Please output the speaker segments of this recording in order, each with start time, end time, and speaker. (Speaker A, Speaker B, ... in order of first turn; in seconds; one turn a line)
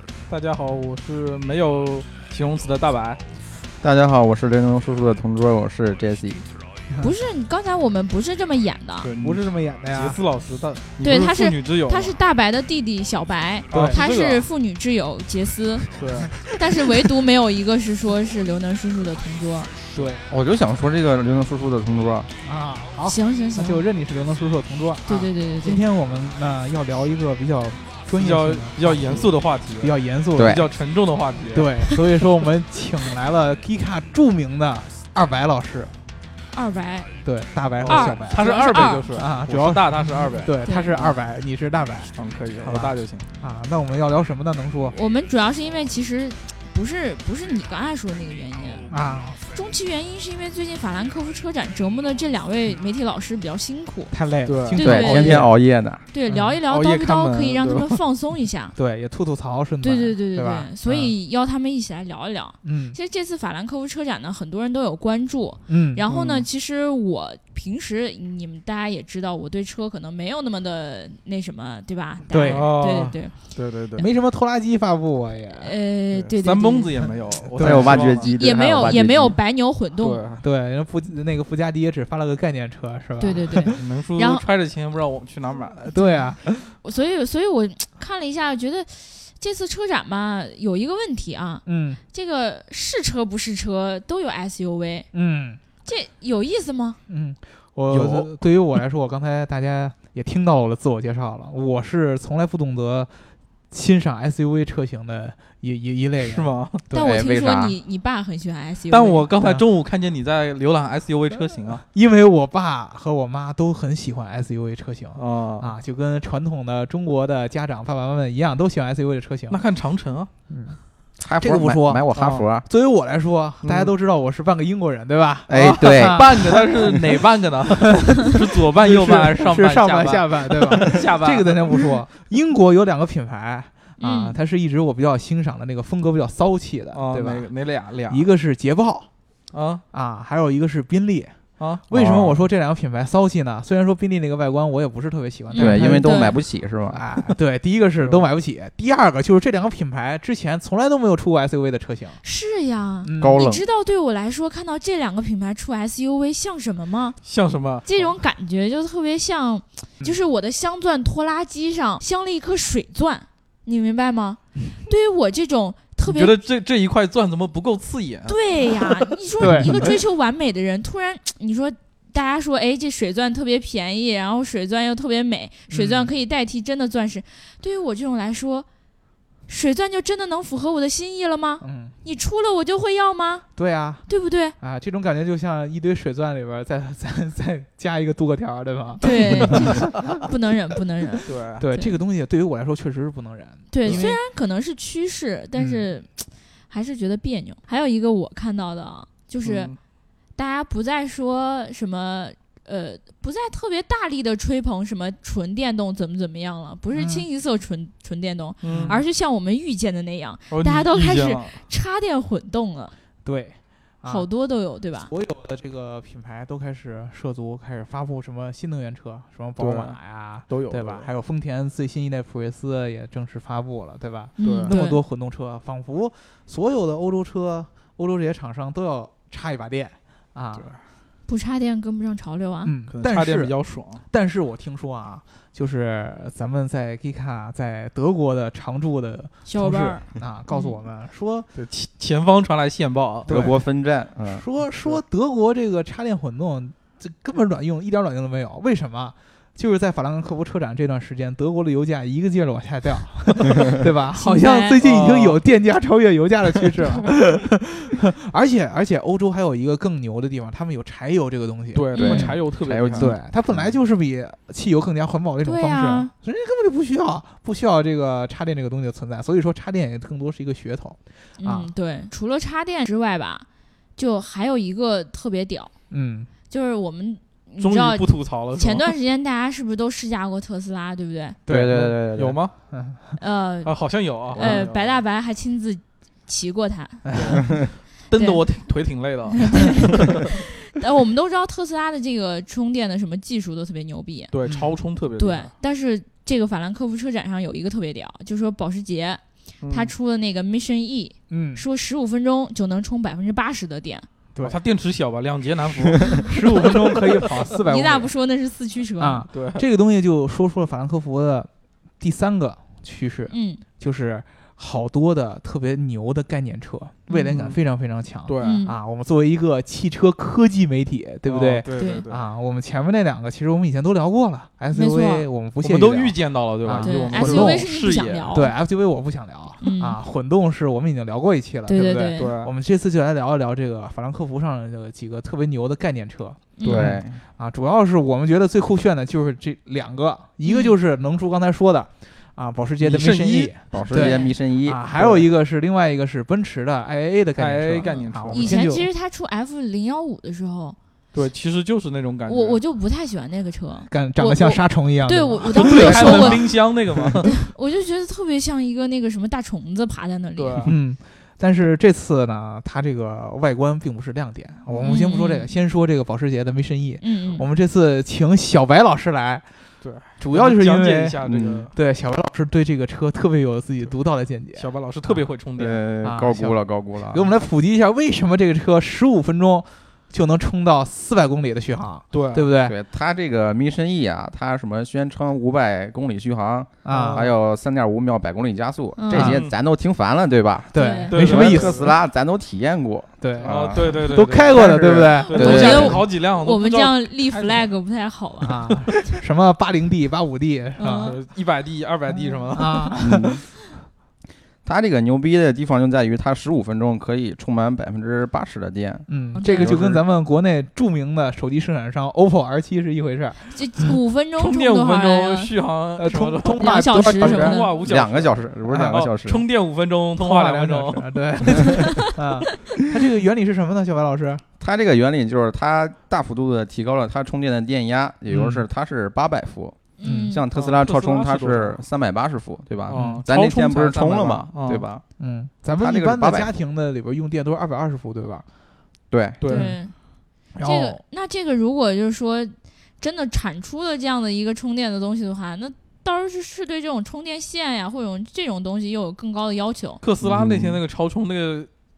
Speaker A: 0.3-3.2
Speaker B: 3.8-6.4
Speaker C: 7.0-9.1
Speaker A: 9.0-12.2
Speaker D: 9.2-10.2
Speaker C: 11.0-15.9
Speaker A: 13.7-14.5
Speaker D: 13.7-14.0
Speaker A: 15.9-16.3
Speaker D: 16.2-17.1
Speaker C: 16.4-19.7
Speaker D: 19.9-20.2
Speaker B: 20.3-22.3
Speaker D: 22.4-30.6
Speaker C: 23.0-23.9
Speaker C: 25.1-25.8
Speaker A: 28.1-31.7
Speaker B: 30.4-30.6
Speaker D: 31.5-35.9
Speaker C: 36.5-37.1
Speaker D: 37.2-45.0
Speaker A: 37.8-41.2
Speaker C: 37.9-39.1
Speaker C: 40.6-40.9
Speaker A: 42.2-43.3
Speaker C: 44.9-54.1
Speaker D: 48.9-49.4
Speaker D: 54.1-55.5
Speaker A: 54.5-55.4
Speaker C: 54.7-55.5
Speaker B: 54.8-56.0
Speaker C: 56.1-58.8
Speaker D: 56.3-56.6
Speaker A: 56.7-58.0
Speaker D: 58.8-61.1
Speaker C: 59.8-73.4
Speaker D: 62.6-63.0
Speaker D: 65.7-66.1
Speaker A: 66.1-66.5
Speaker D: 72.3-72.7
Speaker A: 72.5-74.1
Speaker D: 74.0-75.7
Speaker C: 75.6-77.0
Speaker A: 76.1-78.3
Speaker D: 77.4-78.2
Speaker B: 77.6-79.4
Speaker C: 78.2-80.2
Speaker A: 80.0-80.4
Speaker D: 80.4-83.8
Speaker C: 83.2-84.5
Speaker A: 83.7-85.8
Speaker D: 85.8-86.7
Speaker C: 85.9-95.1
Speaker D: 91.7-92.0
Speaker D: 95.1-95.6
Speaker C: 95.8-97.0
Speaker D: 97.1-103.1
Speaker A: 97.9-98.3
Speaker D: 103.7-107.1
Speaker A: 106.2-106.8
Speaker C: 106.9-109.2
Speaker B: 107.0-107.8
Speaker A: 108.9-111.8
Speaker D: 109.4-109.6
Speaker D: 111.7-119.6
Speaker A: 115.2-115.7
Speaker A: 119.5-120.3
Speaker D: 120.5-120.8
Speaker B: 121.2-122.7
Speaker D: 121.4-122.0
Speaker A: 122.1-122.5
Speaker D: 122.7-126.6
Speaker A: 123.6-123.9
Speaker B: 125.5-127.0
Speaker A: 125.5-131.9
Speaker D: 127.8-137.5
Speaker C: 134.0-134.4
Speaker A: 136.9-138.2
Speaker D: 138.1-139.1
Speaker A: 139.5-139.8
Speaker D: 139.9-141.4
Speaker A: 141.6-142.1
Speaker D: 141.9-146.3
Speaker B: 141.9-142.3
Speaker C: 145.5-146.4
Speaker B: 145.6-147.0
Speaker D: 146.9-152.2
Speaker A: 148.0-148.2
Speaker C: 152.2-157.2
Speaker D: 153.0-153.4
Speaker B: 153.2-153.7
Speaker A: 157.2-158.2
Speaker C: 157.8-166.4
Speaker A: 166.1-168.7
Speaker C: 168.3-178.7
Speaker D: 169.4-169.9
Speaker A: 169.4-170.0
Speaker D: 175.7-176.1
Speaker C: 179.5-183.5
Speaker D: 181.6-182.0
Speaker D: 183.6-184.1
Speaker C: 184.1-184.6
Speaker D: 184.6-190.2
Speaker C: 189.0-192.0
Speaker A: 191.3-191.6
Speaker D: 191.6-194.2
Speaker C: 193.7-199.7
Speaker D: 195.6-195.9
Speaker A: 199.4-199.8
Speaker C: 200.3-212.9
Speaker D: 206.9-207.2
Speaker A: 208.6-209.0
Speaker D: 208.6-209.0
Speaker A: 210.5-211.6
Speaker D: 213.2-214.3
Speaker C: 214.1-215.1
Speaker D: 215.1-230.7
Speaker A: 219.6-221.1
Speaker C: 224.4-225.0
Speaker A: 224.4-224.7
Speaker C: 231.3-232.7
Speaker D: 232.6-233.6
Speaker A: 232.9-234.0
Speaker D: 234.1-241.5
Speaker C: 239.4-240.8
Speaker A: 241.6-243.3
Speaker D: 243.3-243.6
Speaker B: 243.3-244.4
Speaker D: 244.2-271.7
Speaker C: 254.2-254.8
Speaker A: 254.8-255.4
Speaker A: 261.7-263.1
Speaker C: 261.9-262.3
Speaker B: 262.2-263.8
Speaker C: 265.4-266.1
Speaker C: 271.4-275.7
Speaker D: 275.9-276.3
Speaker C: 276.5-281.4
Speaker A: 277.6-278.9
Speaker D: 281.5-282.0
Speaker B: 281.5-282.4
Speaker A: 282.1-282.5
Speaker D: 282.7-283.1
Speaker C: 283.2-283.7
Speaker A: 283.6-285.0
Speaker C: 284.3-287.4
Speaker B: 284.4-284.6
Speaker D: 287.1-287.4
Speaker A: 287.1-290.3
Speaker C: 288.1-288.4
Speaker C: 289.4-294.3
Speaker A: 294.3-295.5
Speaker D: 294.4-294.7
Speaker C: 295.2-304.1
Speaker A: 299.6-299.9
Speaker D: 301.3-301.6
Speaker A: 304.4-307.4
Speaker D: 306.2-308.1
Speaker C: 307.7-309.2
Speaker D: 309.0-311.5
Speaker A: 309.3-309.6
Speaker D: 312.0-327.7
Speaker C: 313.3-313.6
Speaker A: 317.3-317.6
Speaker A: 318.3-318.7
Speaker C: 318.4-318.8
Speaker A: 321.2-322.2
Speaker C: 321.7-322.1
Speaker C: 324.7-325.3
Speaker A: 325.6-328.3
Speaker C: 326.8-328.5
Speaker D: 328.3-348.9
Speaker C: 329.6-330.0
Speaker C: 331.7-332.3
Speaker A: 332.2-332.5
Speaker C: 336.6-336.9
Speaker A: 336.6-336.9
Speaker B: 336.7-337.2
Speaker C: 340.4-340.7
Speaker A: 342.8-344.0
Speaker B: 343.7-344.8
Speaker C: 343.8-344.4
Speaker A: 344.9-345.3
Speaker A: 347.4-348.6
Speaker C: 347.8-350.8
Speaker A: 351.1-352.6
Speaker C: 352.3-356.5
Speaker D: 353.9-356.6
Speaker A: 355.5-357.4
Speaker C: 357.2-360.7
Speaker A: 360.4-360.7
Speaker D: 360.6-369.5
Speaker C: 364.7-365.5
Speaker C: 367.0-367.5
Speaker A: 369.8-371.7
Speaker D: 370.2-371.2
Speaker B: 371.2-371.7
Speaker D: 371.7-375.3
Speaker A: 374.6-375.8
Speaker B: 375.6-377.3
Speaker D: 376.0-382.8
Speaker A: 382.1-382.5
Speaker B: 382.6-396.0
Speaker D: 386.8-387.3
Speaker A: 386.9-387.4
Speaker C: 389.0-389.4
Speaker D: 389.1-389.4
Speaker A: 389.1-389.6
Speaker D: 390.7-391.9
Speaker C: 390.8-391.1
Speaker A: 391.1-391.9
Speaker D: 393.2-396.0
Speaker A: 393.4-397.7
Speaker C: 395.3-398.8
Speaker D: 398.4-401.2
Speaker C: 400.8-401.2
Speaker A: 401.0-402.9
Speaker D: 402.5-403.4
Speaker B: 403.0-403.4
Speaker B: 404.6-410.0
Speaker D: 409.1-413.4
Speaker C: 409.4-409.7
Speaker C: 413.5-415.5
Speaker A: 414.4-421.4
Speaker D: 416.0-417.6
Speaker C: 416.5-417.8
Speaker B: 417.4-419.4
Speaker D: 418.7-419.1
Speaker D: 420.2-424.4
Speaker C: 421.7-422.1
Speaker B: 424.6-435.0
Speaker D: 428.3-428.7
Speaker C: 430.0-430.4
Speaker D: 430.0-430.4
Speaker A: 430.5-431.8
Speaker A: 432.9-434.9
Speaker D: 432.9-433.2
Speaker D: 435.2-438.4
Speaker B: 435.8-436.5
Speaker B: 439.1-439.4
Speaker A: 439.4-439.8
Speaker D: 439.5-439.8
Speaker C: 439.5-439.9
Speaker D: 440.6-441.0
Speaker C: 440.6-450.0
Speaker A: 450.0-451.7
Speaker B: 450.2-450.8